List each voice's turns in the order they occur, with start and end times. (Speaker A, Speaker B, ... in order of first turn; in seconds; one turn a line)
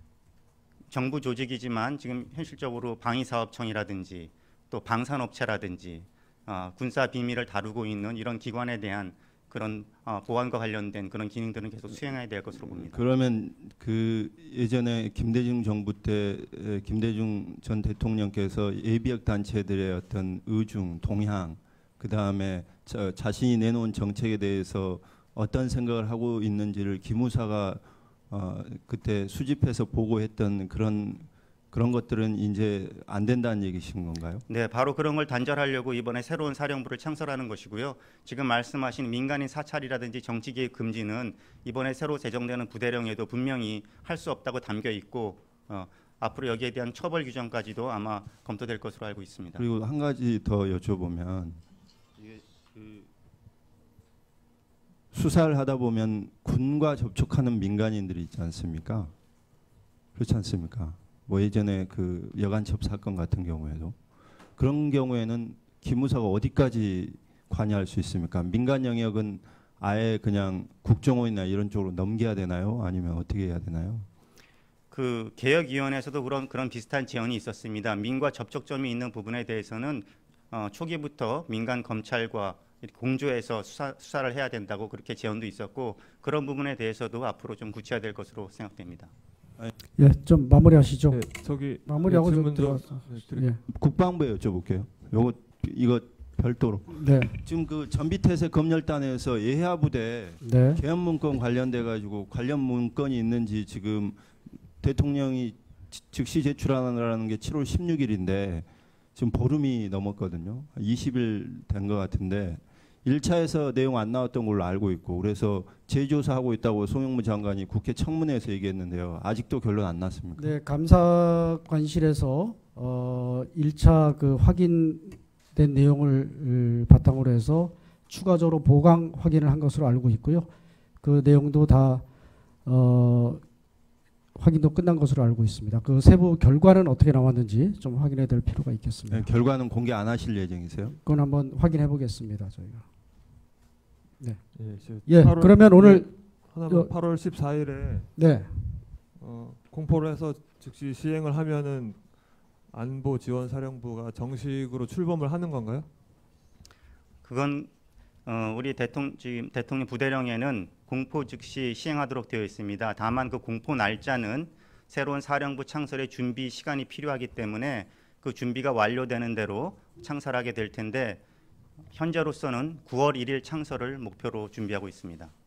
Speaker A: 0.9-13.0
Speaker B: 12.8-34.4
Speaker A: 34.5-49.6
Speaker B: 49.5-51.6
Speaker B: 55.1-59.1
Speaker B: 60.1-64.0
Speaker B: 64.6-74.1
Speaker A: 74.9-89.1
Speaker C: 90.0-93.6
Speaker D: 91.1-93.5
Speaker B: 93.7-104.2
Speaker C: 96.9-97.4
Speaker C: 100.4-100.8
Speaker B: 104.8-120.5
Speaker C: 120.3-130.5
Speaker C: 131.0-132.0
Speaker C: 132.6-133.4
Speaker C: 134.3-139.3
Speaker B: 139.1-140.9
Speaker C: 140.8-142.8
Speaker C: 144.2-146.9
Speaker D: 144.5-148.1
Speaker C: 148.1-148.9
Speaker D: 149.2-155.9
Speaker A: 157.2-157.7
Speaker A: 158.2-171.2
Speaker A: 171.9-175.3